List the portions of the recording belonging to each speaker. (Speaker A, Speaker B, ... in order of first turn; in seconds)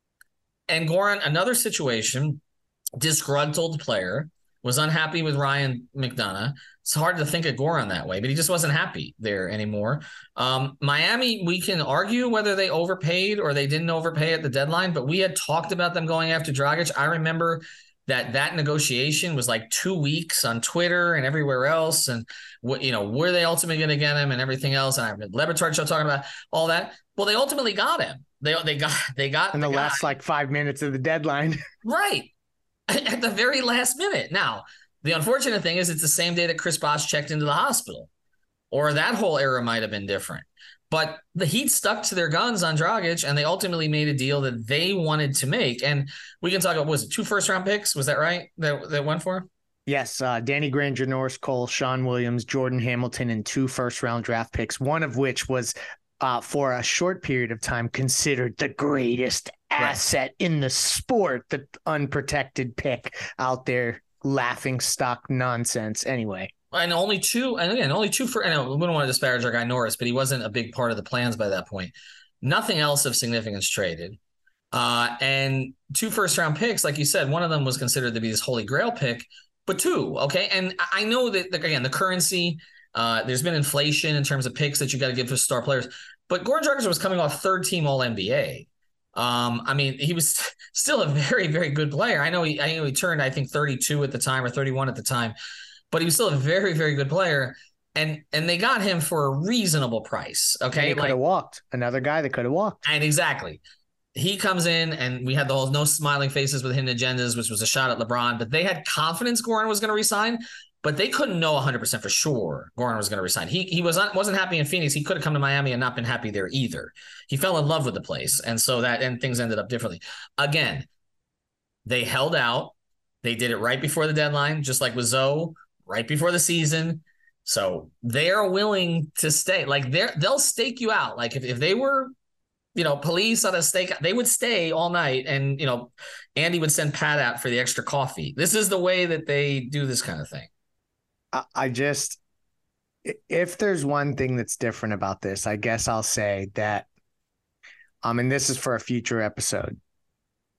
Speaker A: 0.7-2.4, 3.0-30.2, 31.8-32.3, 32.9-38.1, 38.7-49.5, 66.7-74.2, 74.7-95.3, 95.9-101.2, 102.8-103.6, 104.2-120.9, 121.9-132.1, 132.8-140.5
Speaker B: 29.5-31.6, 49.9-66.5, 100.7-102.8, 141.3-142.2, 143.1-146.9, 148.0-149.8